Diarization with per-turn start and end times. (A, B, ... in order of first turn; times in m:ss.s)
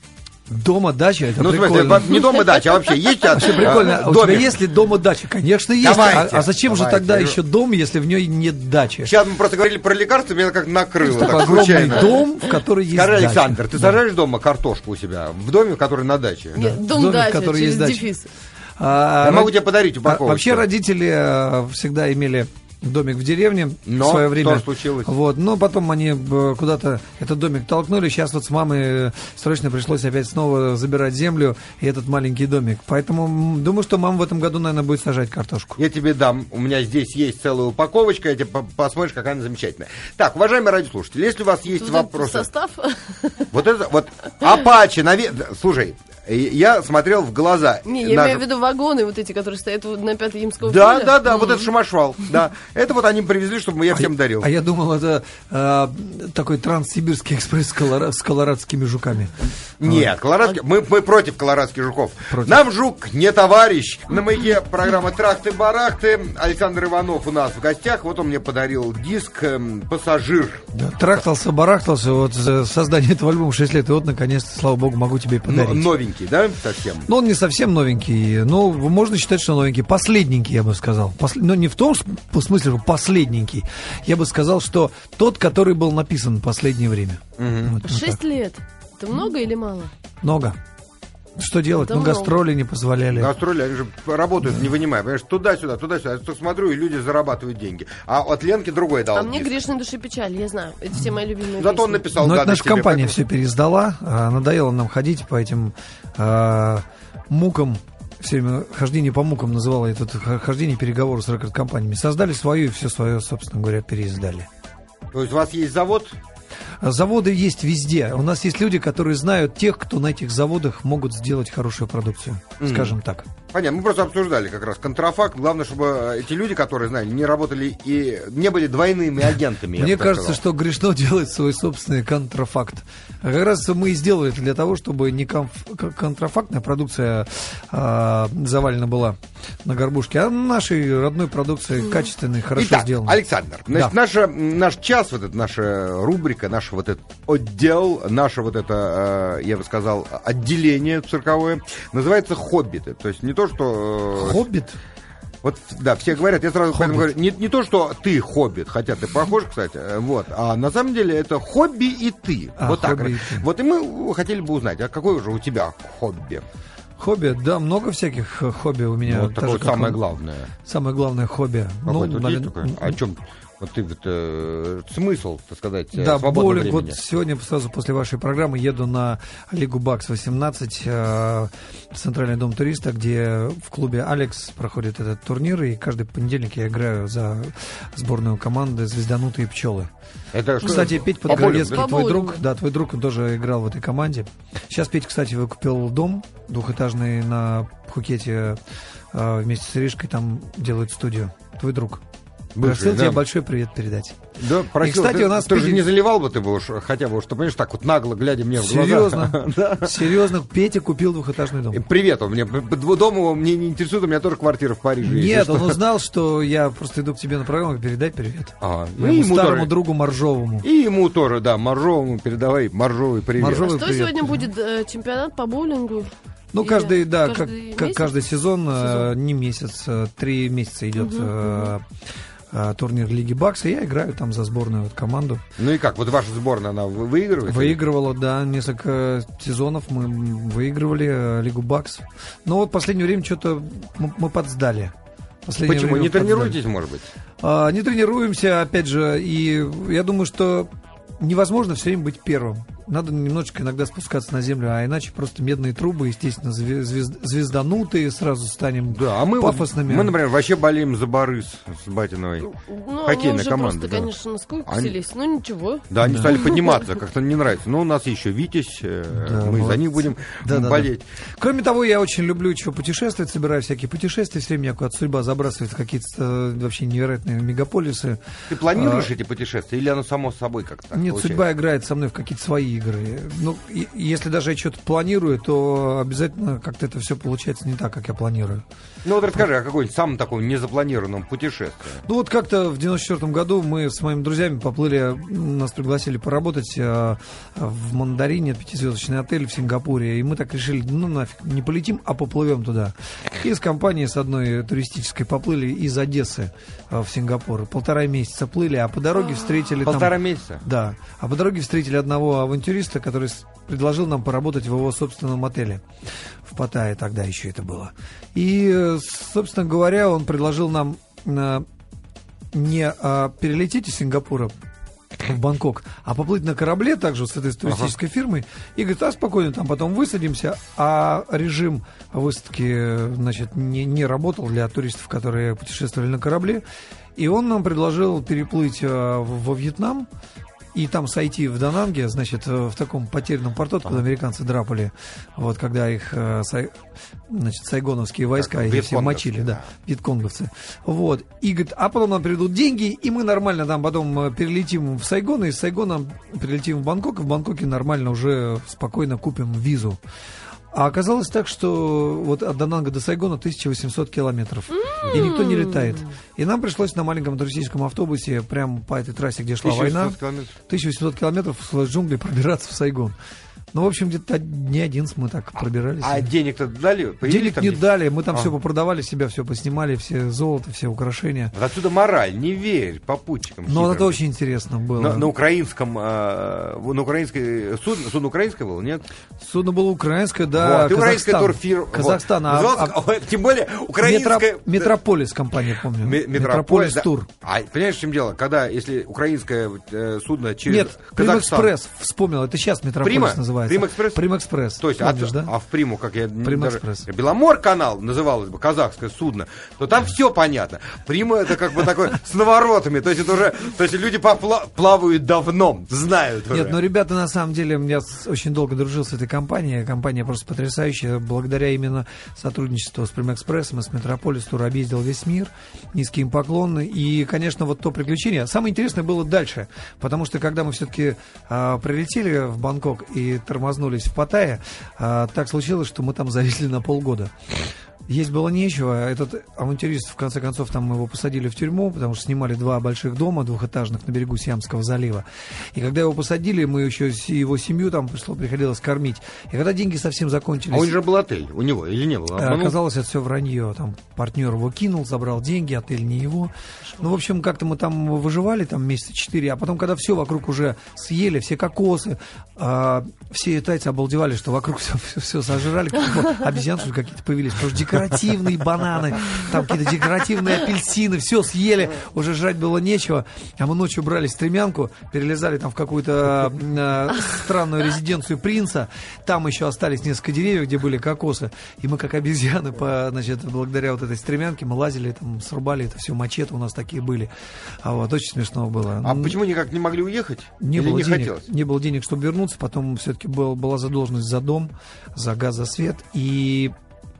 0:00.5-0:02.4 A
0:01.4-0:04.5 B
0:02.1-0:03.8 C
0:03.3-0:09.2 A
0:05.8-0:07.4 B
0:09.0-0:12.1 B
0:11.0-0:14.0 A
0:11.2-0:12.3 C
0:12.9-0:16.8 B
0:16.6-0:18.3 C
0:16.6-0:18.1 A
0:18.8-0:35.8 A
0:19.2-0:20.6 B
0:23.8-0:25.1 B
0:35.8-0:42.5 B
0:41.7-0:43.5 C
0:43.5-0:48.4 B
0:47.8-0:51.7 C
0:50.6-0:54.5 B
0:53.9-1:00.1 A
0:59.8-1:10.6 B
1:02.3-1:02.6 A
1:10.7-1:15.9 A
1:15.4-1:17.1 B
1:17.0-1:28.2 A
1:27.4-1:27.8 B
1:27.8-1:29.9 C
1:30.2-1:30.6 A
1:31.4-1:33.3 A
1:31.8-1:32.4 C
1:33.1-1:39.5 B
1:39.1-1:42.0 C
1:41.6-1:43.2 B
1:42.1-1:54.5 A
1:55.1-1:56.2 B
1:56.8-2:03.3 A
2:02.6-2:02.9 B
2:03.5-2:10.4 B
2:09.8-2:23.2 A
2:22.5-2:34.4 B
2:34.2-2:34.8 A
2:35.4-2:46.4 B
2:36.7-2:37.1 A
2:42.6-2:43.4 A
2:47.0-2:50.0 A
2:49.1-2:50.5 B
2:50.6-2:53.0 A
2:51.8-2:57.0 B
2:55.9-3:09.9 A
3:10.3-3:11.8 B
3:10.6-3:22.0 A
3:10.8-3:12.4 C
3:22.6-3:23.2 B
3:22.6-3:24.2 A
3:24.4-3:30.1 B
3:24.8-3:25.9 A
3:28.6-3:31.8 A
3:31.7-3:35.8 B
3:35.0-3:40.6 A
3:38.6-3:39.7 B
3:40.6-3:43.7 B
3:43.4-3:44.5 A
3:43.5-3:48.1 C
3:46.5-3:51.8 A
3:48.8-3:49.1 C
3:51.0-3:51.7 C
3:52.5-3:55.4 A
3:55.6-3:57.8 B
3:57.4-4:06.6 A
4:05.6-4:07.0 B
4:07.4-4:20.2 A
4:18.9-4:22.5 B
4:22.5-4:26.8 C
4:23.0-4:24.1 B
4:24.6-4:25.0 B
4:25.9-4:31.1 B
4:26.0-4:26.4 A
4:29.1-4:39.1 A
4:38.5-4:41.4 B
4:40.9-4:48.6 A
4:49.0-4:52.0 B
4:52.0-5:15.8 A
5:09.8-5:10.6 B
5:16.4-5:21.7 A
5:22.5-5:24.5 A
5:25.1-5:36.6 A
5:27.6-5:27.9 B
5:37.2-5:40.1 A
5:40.7-6:00.0 A
5:48.4-5:49.7 B
6:00.7-6:13.2 A
6:04.7-6:06.0 C
6:05.0-6:05.3 B
6:09.6-6:10.6 B
6:13.7-6:16.3 A
6:16.0-6:18.5 B
6:17.2-6:21.5 A
6:21.5-6:24.2 B
6:23.6-6:25.3 A
6:25.0-6:29.0 B
6:29.4-6:33.0 A
6:30.5-6:34.9 B
6:34.0-6:37.3 A
6:36.0-6:41.7 B
6:40.6-6:45.5 A
6:43.0-6:44.2 B
6:44.8-6:56.8 B
6:46.4-6:47.1 A
6:56.5-7:17.3 A
7:18.1-7:31.0 A
7:30.7-7:32.8 B
7:32.4-8:09.4 A
8:09.0-8:11.4 B
8:10.6-8:16.7 A